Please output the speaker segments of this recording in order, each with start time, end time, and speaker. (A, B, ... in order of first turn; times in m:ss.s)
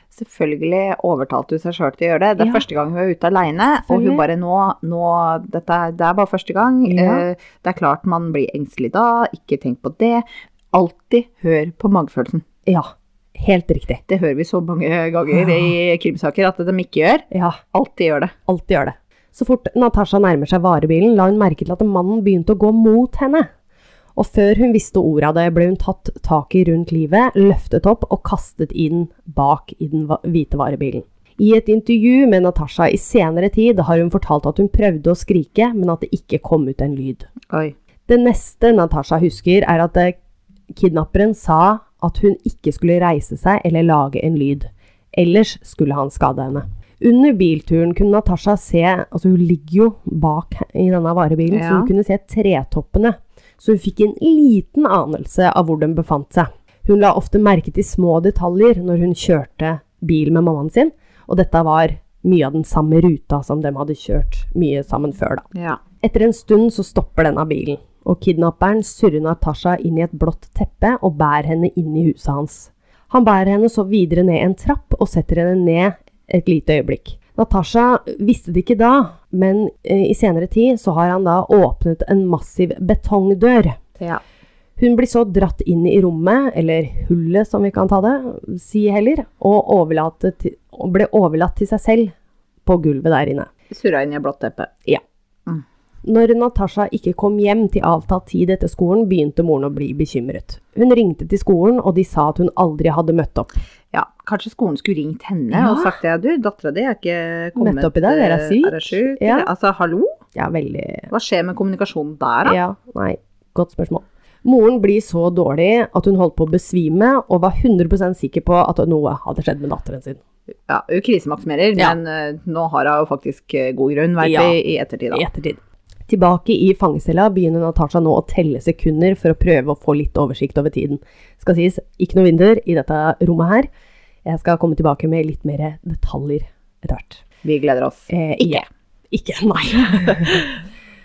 0:00.1-0:12.4 A
0:02.4-0:02.6 B
0:03.8-0:04.2 B
0:06.8-0:07.2 B
0:12.6-0:14.0 B
0:14.1-0:18.3 A
0:17.3-0:17.6 B
0:18.5-0:23.5 B
0:24.2-0:37.3 B
0:37.5-0:37.8 A
0:38.1-0:40.2 B
0:40.7-1:05.5 B
0:51.5-0:51.9 A
1:05.5-1:05.8 A
1:06.0-1:23.8 B
1:24.8-1:32.1 B
1:32.6-1:33.5 B
1:33.7-1:34.7 A
1:36.0-1:43.5 B
1:43.9-1:50.1 A
1:45.5-1:45.9 B
1:47.6-1:49.5 B
1:50.4-1:51.1 B
1:51.1-1:52.6 A
1:52.4-2:00.2 B
2:00.7-2:05.2 A
2:04.2-2:04.6 B
2:05.1-2:13.7 B
2:14.2-2:17.2 B
2:17.4-2:18.6 A
2:18.1-2:20.6 B